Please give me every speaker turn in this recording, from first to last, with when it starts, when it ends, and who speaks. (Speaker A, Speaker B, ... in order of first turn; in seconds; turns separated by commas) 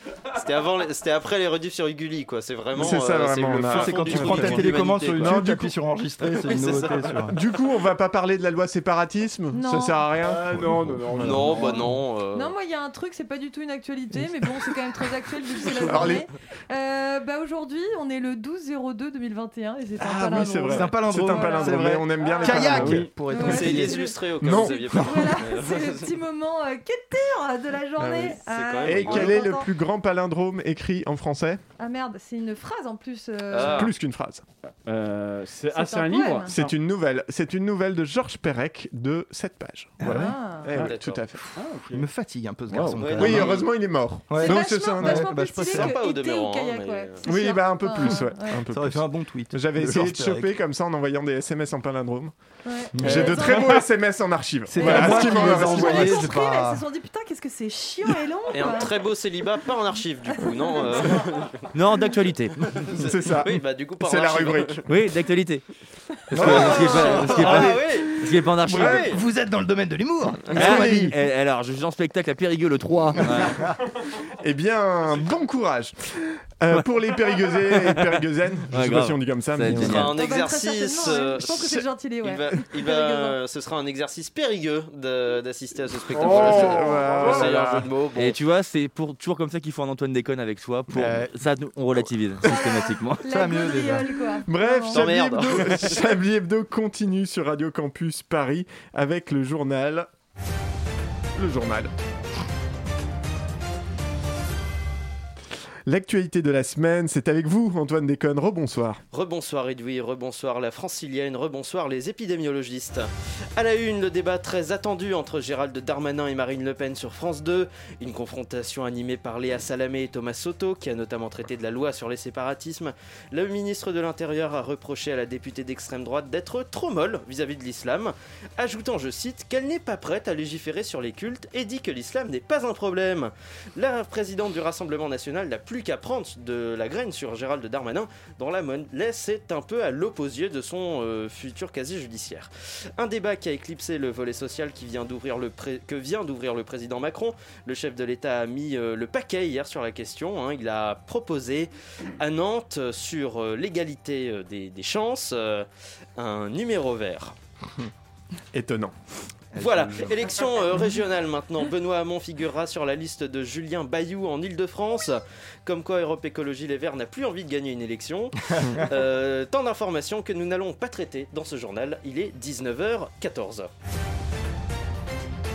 Speaker A: 0.3-5.4, Speaker B: 2.7-5.7, Speaker C: 3.7-7.3, Speaker A: 6.4-7.2, Speaker B: 7.3-10.6, Speaker D: 9.5-10.1, Speaker E: 10.2-11.9, Speaker C: 10.6-11.5, Speaker A: 11.2-12.5, Speaker D: 11.5-21.8, Speaker B: 15.8-16.2, Speaker B: 20.0-23.1, Speaker C: 20.6-24.0, Speaker E: 22.4-23.1, Speaker D: 23.3-29.7, Speaker A: 23.3-26.1, Speaker B: 24.4-25.4, Speaker B: 28.0-31.6, Speaker A: 28.4-29.5, Speaker D: 31.8-33.9, Speaker A: 33.5-33.9, Speaker B: 33.6-34.4, Speaker E: 34.9-36.7, Speaker D: 35.7-36.5, Speaker B: 36.5-41.4, Speaker D: 40.0-40.7, Speaker A: 40.7-41.3, Speaker E: 41.5-42.0, Speaker C: 41.9-43.6, Speaker A: 43.0-43.7, Speaker B: 43.1-45.4, Speaker C: 44.3-45.9, Speaker D: 44.4-48.6, Speaker A: 45.6-47.2, Speaker B: 47.2-52.3, Speaker C: 48.7-50.5, Speaker D: 52.6-53.8, Speaker C: 52.9-53.7, Speaker B: 52.9-56.3, Speaker C: 54.7-56.8, Speaker D: 54.8-58.9, Speaker A: 58.5-61.7, Speaker D: 60.4-61.2, Speaker F: 61.7-62.6, Speaker A: 62.7-64.8, Speaker B: 63.0-64.8, Speaker F: 64.9-65.6, Speaker F: 66.3-69.2, Speaker C: 66.3-67.9, Speaker A: 66.4-69.2, Speaker C: 68.7-71.1, Speaker F: 70.5-73.7, Speaker C: 73.2-73.7, Speaker B: 74.2-80.1, Speaker F: 77.5-80.1, Speaker A: 79.7-88.4, Speaker D: 80.1-83.4, Speaker B: 81.6-81.8, Speaker E: 86.1-87.5, Speaker B: 86.2-87.9, Speaker F: 88.1-93.2, Speaker C: 90.9-91.3, Speaker D: 92.4-95.1, Speaker C: 93.3-94.1, Speaker B: 94.5-100.1, Speaker A: 94.9-96.1, Speaker B: 101.3-101.9, Speaker B: 105.8-109.0, Speaker A: 109.1-157.3, Speaker B: 158.5-158.9, Speaker C: 159.5-160.4, Speaker A: 159.6-173.7